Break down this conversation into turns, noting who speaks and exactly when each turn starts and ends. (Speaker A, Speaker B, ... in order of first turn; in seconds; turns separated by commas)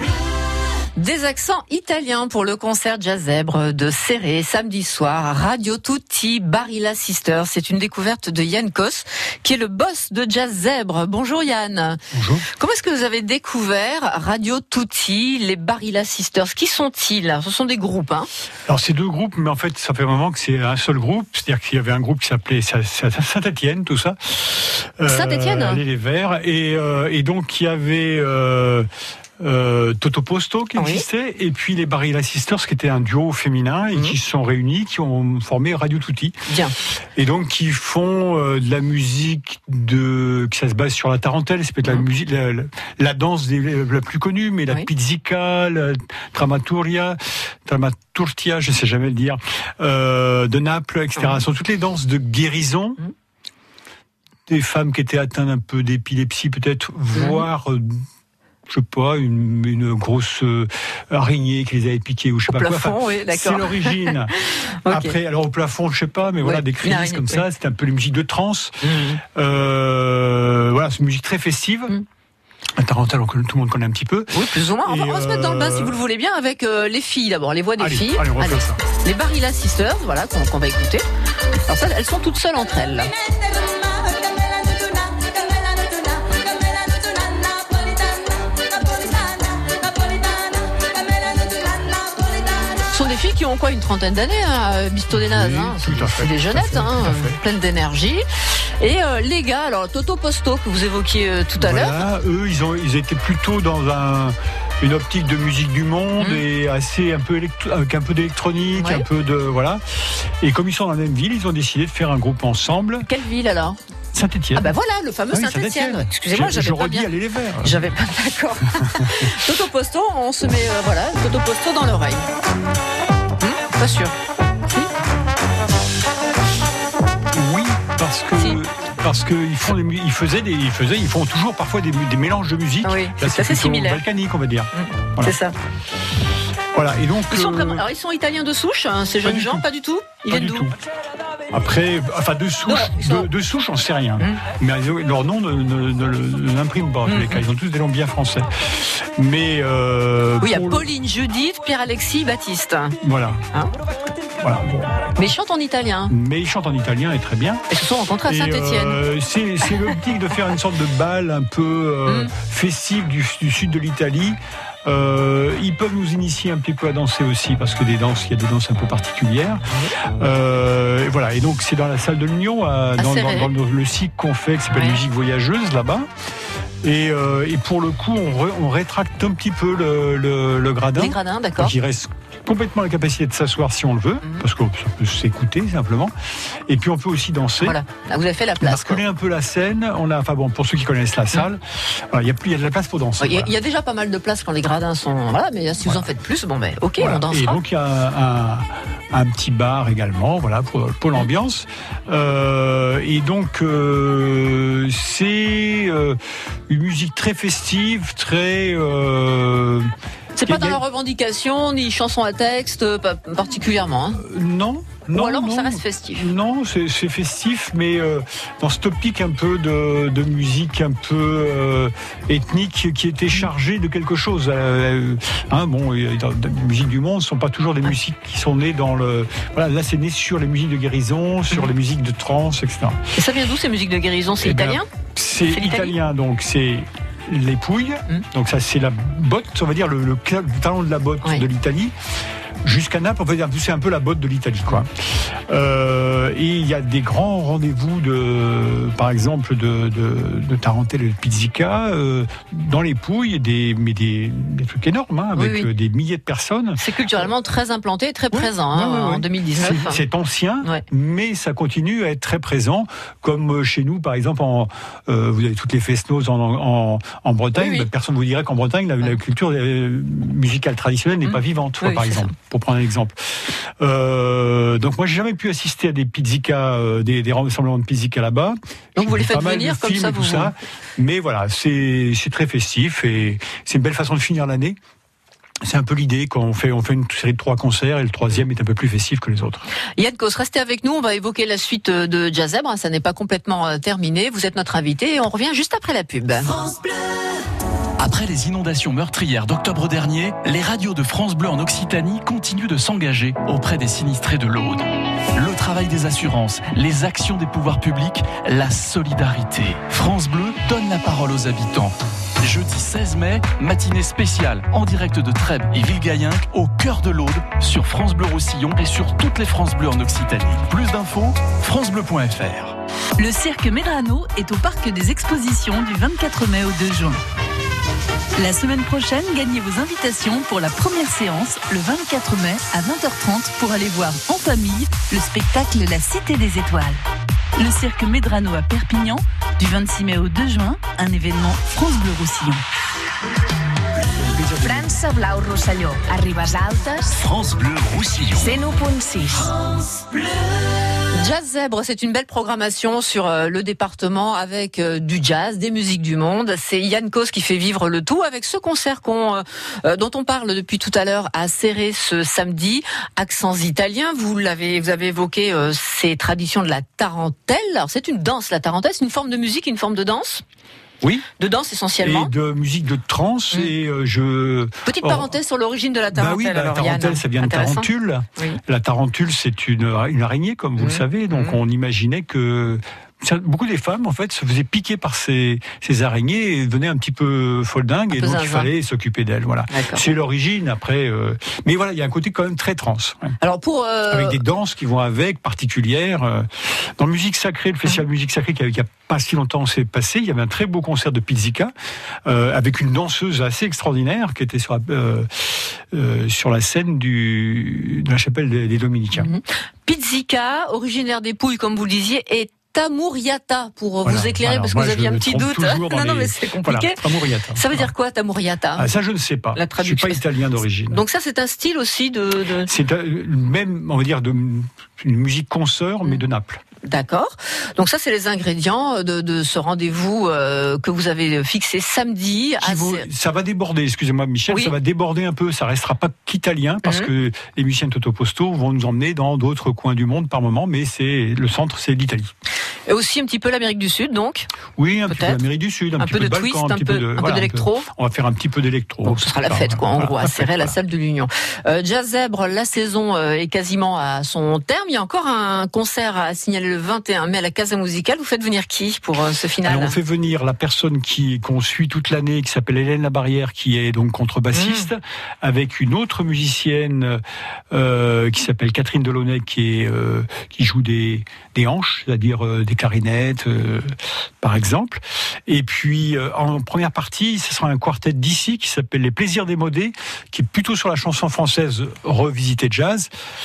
Speaker A: 0.9-18.3, Speaker B: 12.1-12.4, Speaker B: 18.7-28.9, Speaker A: 25.1-25.8, Speaker B: 29.4-36.4, Speaker A: 30.8-31.0, Speaker A: 36.5-36.7, Speaker B: 37.1-53.0, Speaker B: 54.5-58.0, Speaker A: 57.1-57.5, Speaker B: 58.7-71.9, Speaker A: 62.5-64.2, Speaker A: 64.8-65.1, Speaker A: 66.4-67.4, Speaker A: 68.8-69.2, Speaker B: 72.8-76.0, Speaker A: 74.3-81.0, Speaker B: 77.8-78.8, Speaker A: 81.6-83.1, Speaker A: 92.8-98.2, Speaker B: 95.1-97.4, Speaker A: 98.8-102.0, Speaker B: 101.6-113.1, Speaker A: 106.2-106.4, Speaker A: 108.7-109.0, Speaker A: 113.0-113.8, Speaker B: 114.1-114.7, Speaker A: 114.5-117.1, Speaker B: 115.3-117.8, Speaker A: 117.6-122.2, Speaker A: 123.4-124.1, Speaker B: 127.3-135.4, Speaker A: 132.8-134.0, Speaker A: 134.7-135.6, Speaker B: 136.7-137.8, Speaker A: 137.3-140.7, Speaker B: 139.2-139.6, Speaker B: 140.3-140.7, Speaker B: 141.5-150.9, Speaker A: 142.7-143.3, Speaker A: 147.1-147.4, Speaker A: 150.4-153.0, Speaker B: 153.0-153.4, Speaker B: 154.4-155.1, Speaker A: 155.1-156.1, Speaker B: 156.1-157.7, Speaker A: 157.7-159.0, Speaker B: 158.2-169.6, Speaker A: 162.1-162.3, Speaker B: 170.1-176.1, Speaker A: 173.0-173.5, Speaker A: 174.7-175.0, Speaker B: 176.8-186.1, Speaker A: 181.0-181.7, Speaker B: 186.7-187.8, Speaker A: 187.6-189.0, Speaker B: 188.6-193.5, Speaker A: 193.2-197.6, Speaker B: 197.0-209.9, Speaker A: 210.3-214.2, Speaker B: 210.4-210.8, Speaker B: 214.2-233.0, Speaker A: 215.1-216.3, Speaker A: 233.1-234.9, Speaker B: 234.4-241.9, Speaker A: 235.5-235.9, Speaker B: 242.6-256.8, Speaker A: 255.3-255.7, Speaker A: 256.8-260.0, Speaker B: 258.3-284.8, Speaker A: 267.6-267.9, Speaker A: 271.2-272.3, Speaker A: 278.9-280.5, Speaker B: 285.6-289.6, Speaker A: 290.0-296.6, Speaker C: 298.0-322.8, Speaker D: 323.2-327.2, Speaker D: 328.4-337.0, Speaker D: 337.6-342.6, Speaker B: 344.3-344.9, Speaker E: 344.6-347.3, Speaker C: 347.2-348.6, Speaker E: 348.3-349.5, Speaker A: 351.1-370.4, Speaker A: 371.4-372.3, Speaker B: 372.0-375.3, Speaker A: 374.9-378.6, Speaker B: 376.1-393.4, Speaker A: 380.8-381.6, Speaker A: 388.1-388.7, Speaker A: 389.7-390.1, Speaker A: 393.4-394.4, Speaker B: 394.1-401.7, Speaker B: 402.2-409.3, Speaker A: 409.1-418.9, Speaker B: 414.0-417.9, Speaker B: 418.7-421.0, Speaker A: 419.5-420.2, Speaker A: 420.9-422.7, Speaker B: 422.6-426.6, Speaker A: 426.8-433.1, Speaker B: 432.6-442.3, Speaker A: 434.5-434.7, Speaker A: 436.8-437.1, Speaker A: 442.9-444.5, Speaker B: 444.8-450.8, Speaker A: 445.1-445.4, Speaker A: 446.0-447.9, Speaker A: 449.0-460.0, Speaker B: 459.6-483.1, Speaker A: 464.5-464.9